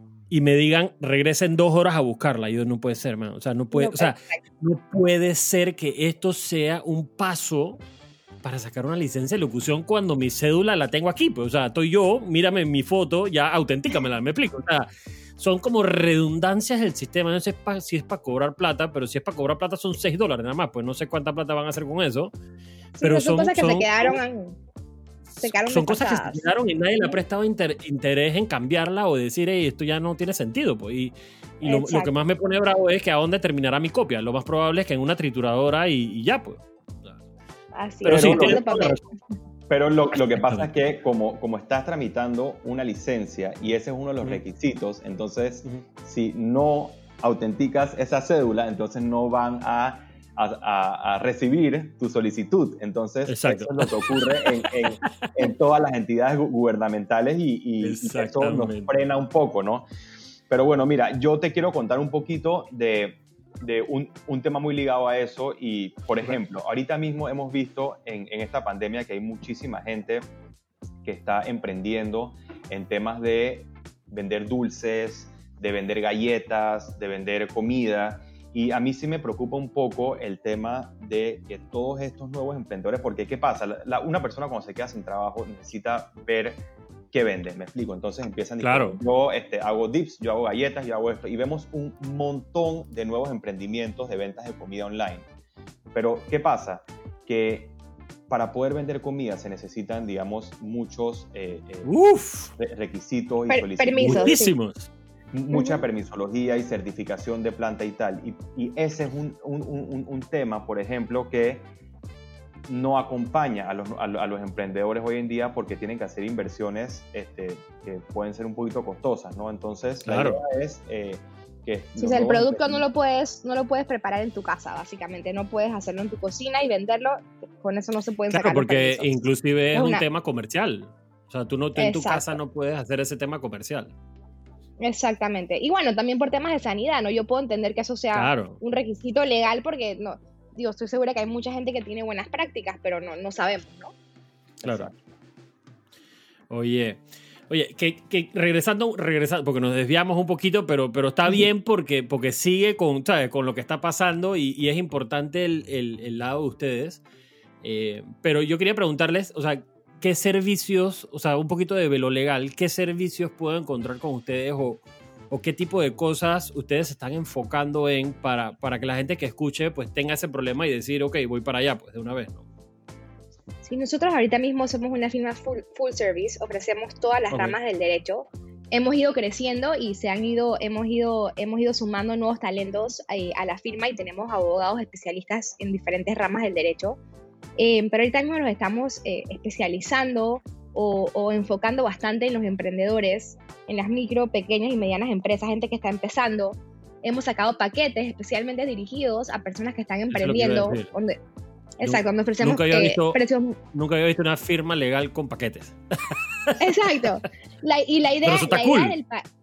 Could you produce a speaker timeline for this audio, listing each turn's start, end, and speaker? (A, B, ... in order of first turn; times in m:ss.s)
0:00.3-0:07.8 A
0:03.7-0:04.4 B
0:08.4-0:22.3 A
0:23.0-0:24.6 B
0:23.0-0:24.2 A
0:25.3-0:37.2 A
0:25.4-0:26.5 B
0:31.6-0:32.1 B
0:37.7-0:39.1 B
0:38.0-0:39.0 A
0:38.1-0:39.0 C
0:39.7-0:59.8 C
0:40.4-0:40.7 A
0:53.3-0:55.3 A
0:57.8-0:58.9 A
1:00.5-1:10.2 C
1:11.0-1:26.6 C
1:27.1-1:35.3 C
1:28.6-1:29.0 A
1:35.9-1:37.8 C
1:38.3-1:41.9 C
1:41.8-1:42.6 A
1:42.6-1:44.4 C
1:43.5-1:44.6 B
1:44.0-1:44.9 A
1:45.3-1:51.7 C
1:45.5-1:45.8 B
1:52.7-2:02.9 C
2:00.1-2:00.4 A
2:02.0-2:09.2 B
2:08.3-2:13.9 A
2:09.7-2:10.0 B
2:11.8-2:12.4 B
2:14.8-2:23.9 B
2:18.2-2:18.6 A
2:24.6-2:25.0 C
2:24.6-2:24.9 A
2:26.5-2:37.0 A
2:37.6-2:52.4 A
2:53.6-3:07.0 B
2:57.3-2:57.6 A
3:07.6-3:21.2 B
3:20.1-3:20.9 A
3:21.8-3:23.6 B
3:21.8-3:23.2 A
3:23.7-3:27.0 A
3:26.6-3:29.2 B
3:28.2-3:29.0 A